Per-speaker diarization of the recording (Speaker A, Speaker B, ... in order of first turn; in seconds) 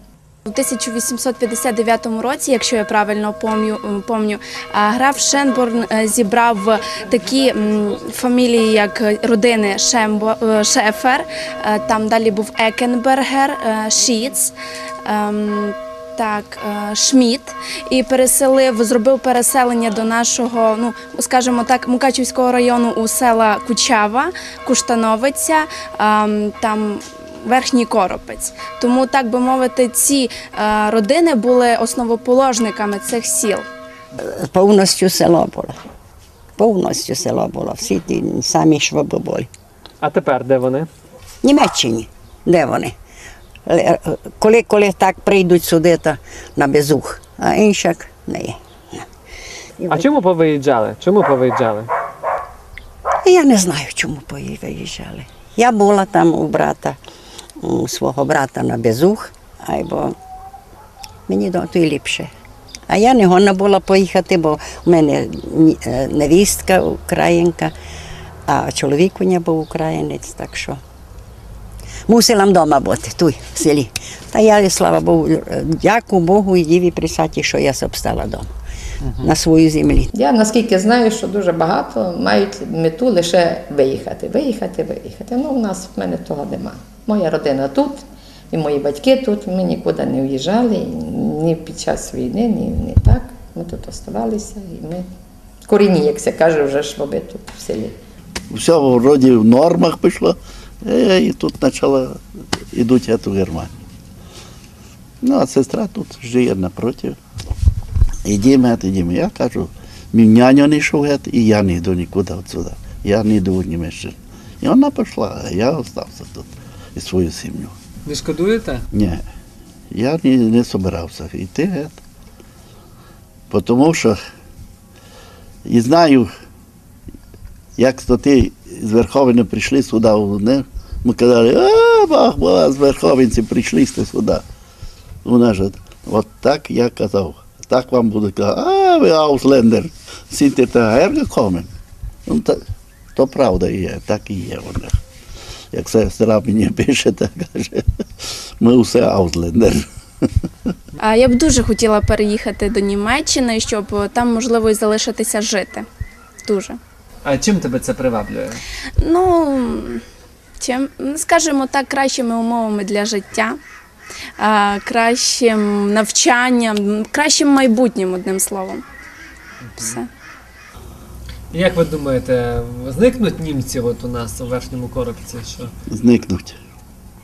Speaker A: 0.4-33.6, 151.0-155.8, 156.4-156.8, 159.0-160.0, 160.6-163.6, 164.4-168.8, 169.8-170.1
Speaker B: 34.2-35.8, 36.6-39.5, 41.4-42.9, 43.6-49.0, 49.8-50.1, 53.2-57.0, 57.6-60.1, 61.3-62.3, 62.9-67.7, 68.5-70.8, 72.1-78.5, 79.2-80.1
Speaker C: 40.0-40.9, 49.9-51.9, 118.0-118.8, 157.2-158.6, 169.7-170.0, 171.5-175.7
Speaker D: 80.1-95.0, 95.6-97.9
Speaker E: 98.5-102.2, 102.7-103.7, 105.2-107.2, 108.2-117.7, 118.9-119.2, 119.9-122.0, 123.5-124.2, 125.6-126.3, 127.8-134.4, 135.2-141.7, 142.3-142.6, 143.2-145.0, 145.7-149.9, 175.9-176.6